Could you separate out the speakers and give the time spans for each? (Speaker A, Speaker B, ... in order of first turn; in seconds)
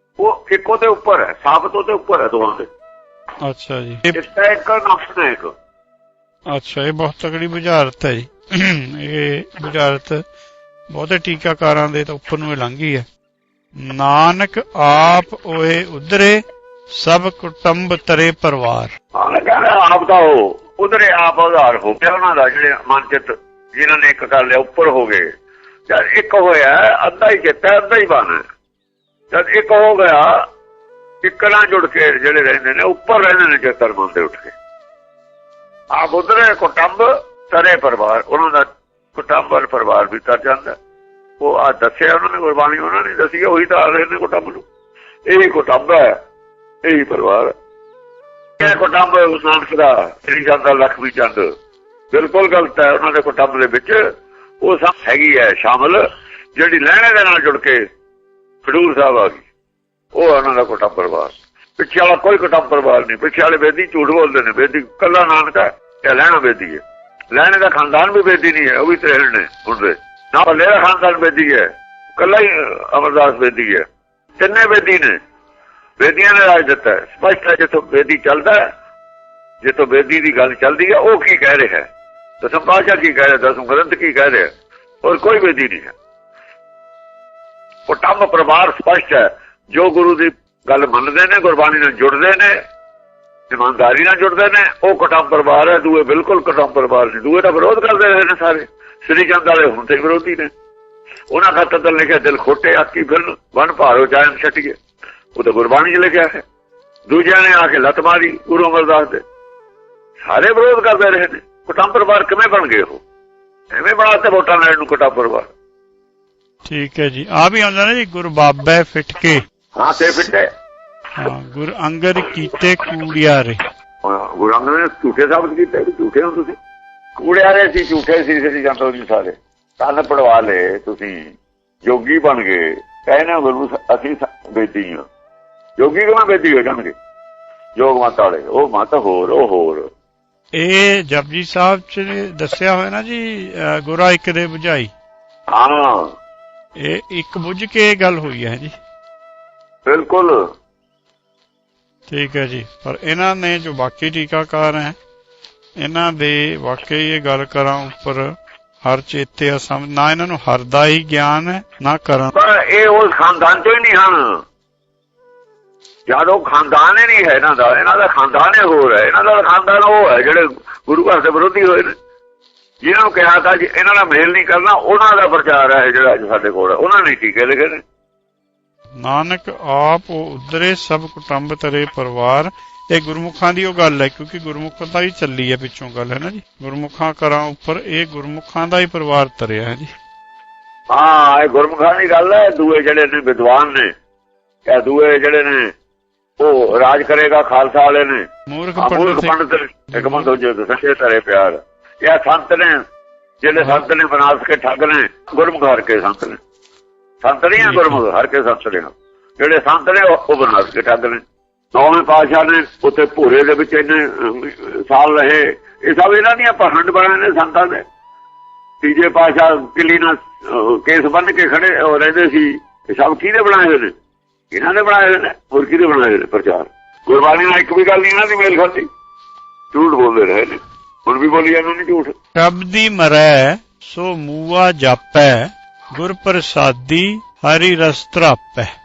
Speaker A: 0.2-2.7, 4.1-5.5, 19.1-25.3, 25.9-28.4, 29.3-30.4, 31.2-34.5, 35.9-40.8, 41.4-44.6, 45.2-46.1, 46.8-47.5, 48.6-51.5, 52.1-54.0, 54.6-56.0, 56.5-57.8, 58.6-59.4, 60.1-66.8, 67.3-73.8, 74.4-75.2, 76.0-78.7, 79.6-81.9, 82.4-84.5, 85.0-85.9, 87.9-92.6, 93.5-100.5, 101.3-104.8, 105.3-106.4, 107.1-109.2, 110.2-113.0, 113.7-115.5, 119.8-120.5, 124.0-126.5, 127.2-131.3, 131.8-135.1, 135.8-136.9, 137.8-139.8, 145.5-146.1, 149.8-150.4, 162.3-164.4, 166.1-171.9, 172.8-177.8, 190.9-193.9, 194.7-195.7, 196.4-202.8, 203.4-206.4, 207.2-211.2, 211.7-217.8, 218.8-223.9, 224.5-228.9, 229.7-232.1
Speaker B: 3.4-4.2, 6.5-10.2, 10.9-13.1, 13.8-16.4, 16.9-18.9, 116.6-119.4, 121.2-123.6, 140.5-144.9, 146.8-148.7, 152.1-155.0, 155.8-158.3, 158.8-162.3, 179.0-189.9, 198.5-199.3, 199.9-200.3, 207.6-208.0, 232.3-238.7